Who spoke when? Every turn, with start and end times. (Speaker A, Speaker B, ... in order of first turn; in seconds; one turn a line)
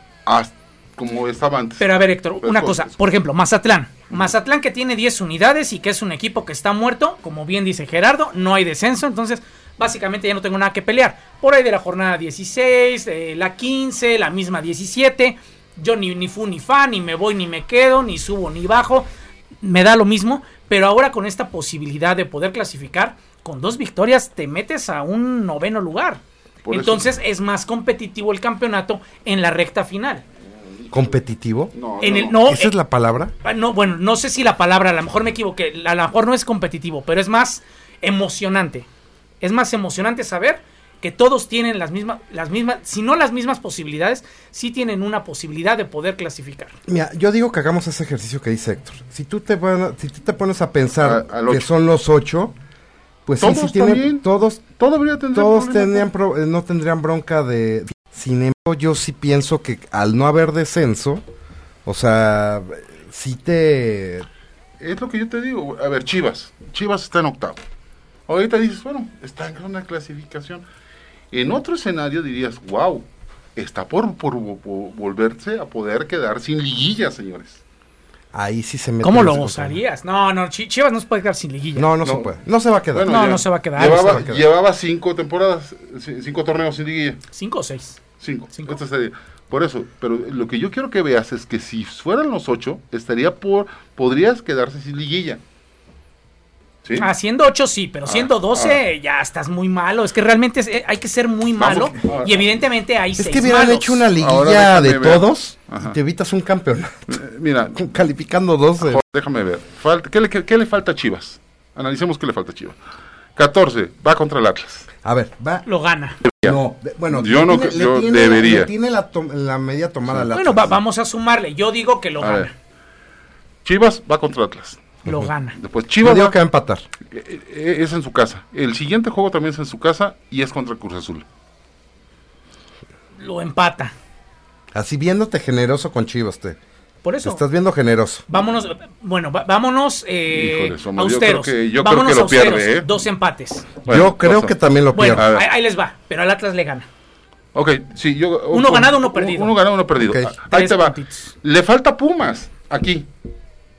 Speaker A: 0.3-2.9
Speaker B: 1.8-19.1
Speaker B: 19.6-30.2
Speaker A: 26.6-27.1
Speaker A: 30.5-31.2
Speaker C: 30.9-31.7
Speaker A: 31.7-32.4
Speaker B: 32.0-32.7
Speaker C: 32.3-33.3
Speaker B: 33.4-38.9
Speaker B: 39.4-46.8
Speaker C: 46.9-52.5
Speaker A: 51.0-51.7
Speaker C: 53.3-54.7
Speaker A: 53.4-56.1
Speaker C: 55.3-61.2
Speaker C: 61.9-64.3
Speaker A: 64.8-67.6
Speaker A: 68.3-70.7
Speaker A: 71.3-77.6
Speaker C: 78.3-79.8
Speaker B: 79.0-81.9
Speaker C: 81.8-83.3
Speaker A: 82.0-82.3
Speaker A: 82.9-87.2
Speaker B: 83.0-84.2
Speaker C: 83.8-84.5
Speaker B: 87.3-88.0
Speaker A: 88.2-95.4
Speaker B: 88.5-88.8
Speaker A: 96.8-97.1
Speaker B: 97.0-104.1
Speaker A: 98.1-98.8
Speaker A: 101.6-102.5
Speaker C: 103.2-107.2
Speaker A: 104.2-106.0
Speaker A: 107.1-107.8
Speaker C: 107.7-109.0
Speaker A: 108.8-112.8
Speaker A: 113.4-114.9
Speaker C: 115.0-115.7
Speaker B: 115.7-116.2
Speaker A: 116.3-116.6
Speaker C: 116.4-120.8
Speaker A: 117.1-118.7
Speaker B: 120.3-122.5
Speaker A: 122.2-122.5
Speaker A: 123.7-125.0
Speaker B: 125.0-125.6
Speaker A: 125.6-126.4
Speaker C: 126.0-126.8
Speaker A: 127.1-131.2
Speaker B: 133.2-133.9
Speaker C: 134.7-136.6
Speaker B: 137.0-137.4
Speaker C: 137.2-138.3
Speaker B: 138.3-143.7
Speaker A: 140.3-142.9
Speaker A: 143.8-144.6
Speaker C: 143.9-145.3
Speaker B: 144.9-146.9
Speaker A: 145.2-145.5
Speaker A: 147.6-153.1
Speaker B: 148.5-149.5
Speaker C: 150.0-150.3
Speaker B: 150.5-151.3